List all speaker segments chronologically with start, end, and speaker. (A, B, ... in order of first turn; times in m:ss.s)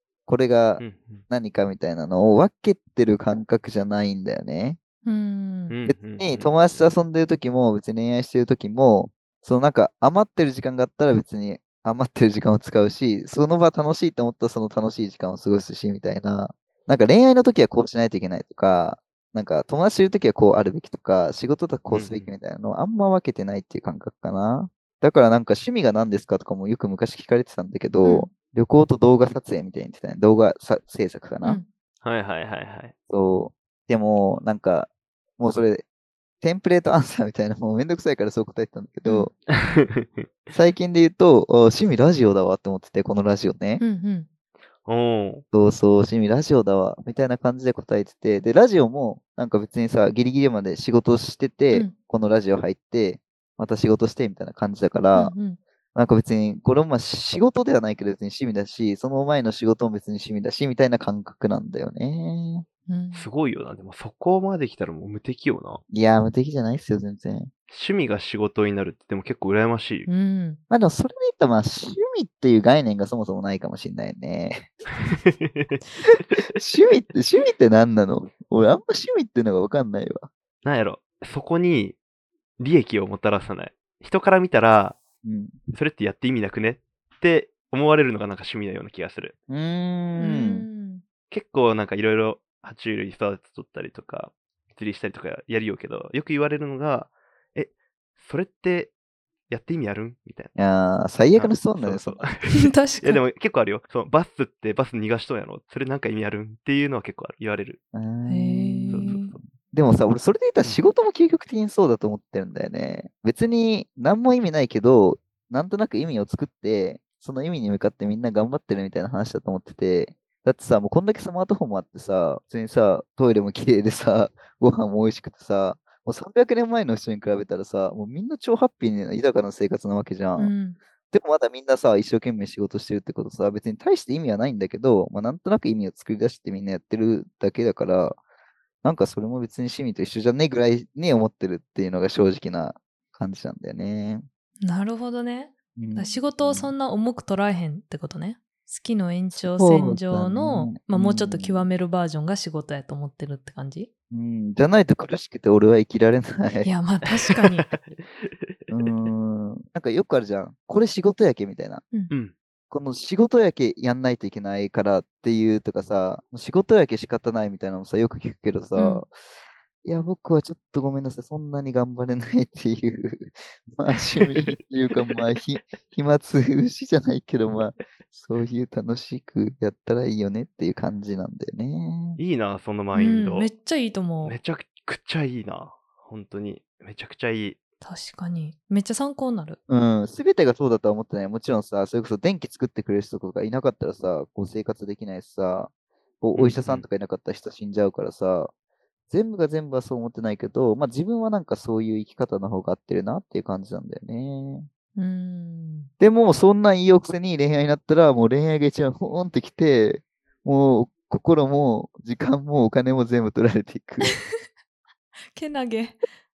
0:00.3-0:04.8 A
0:00.8-0:01.2 B
0:05.1-0:05.7 C
0:05.7-0:06.5 B
0:05.9-0:31.6 A
0:21.9-0:22.3 B
0:28.0-0:28.3 C
0:32.0-0:32.9 B
0:33.1-0:35.8 A
0:36.4-0:39.3 A
0:39.5-0:40.3 B
0:40.5-0:43.8 A
0:43.8-0:44.3 C
0:44.9-0:45.4 B
0:45.5-0:55.4 A
0:55.1-0:55.6 C
0:56.0-1:02.7 A
1:02.9-1:03.3 C
1:03.1-1:05.8 B
1:05.9-1:07.5 A
1:07.7-1:10.1 B
1:10.1-1:10.6 C
1:10.7-1:14.7 A
1:15.0-1:15.8 B
1:16.6-1:20.3 A
1:20.6-1:22.0 B
1:22.6-1:25.0 B
1:25.2-1:25.6 A
1:25.7-1:29.3 B
1:29.5-1:30.7 A
1:30.2-1:31.0 C
1:31.3-1:38.9 B
1:39.5-1:40.6 B
1:40.6-1:42.3 A
1:41.4-1:47.8 B
1:42.5-1:43.2 C
1:47.9-1:49.2 A
1:48.3-1:49.4 C
1:48.9-1:49.4 B
1:49.7-2:10.5 A
2:10.4-2:10.8 C
2:11.1-2:18.2 A
2:18.8-2:24.2 A
2:24.6-2:33.9 C
2:25.8-2:26.7 A
2:29.3-2:31.7 A
2:34.1-2:36.7 A
2:36.6-2:37.7 C
2:37.4-2:38.9 B
2:38.7-2:41.8 A
2:42.7-2:49.1 A
2:48.8-2:49.0 C
2:49.8-3:02.2 A
3:02.2-3:03.5 B
3:02.9-3:04.4 C
3:04.2-3:07.6 B
3:07.8-3:09.6 C
3:09.7-3:15.7 A
3:16.2-3:18.5 A
3:16.4-3:16.8 B
3:19.1-3:24.7 A
3:25.0-3:25.9 C
3:26.0-3:34.2 A
3:35.3-3:36.0 C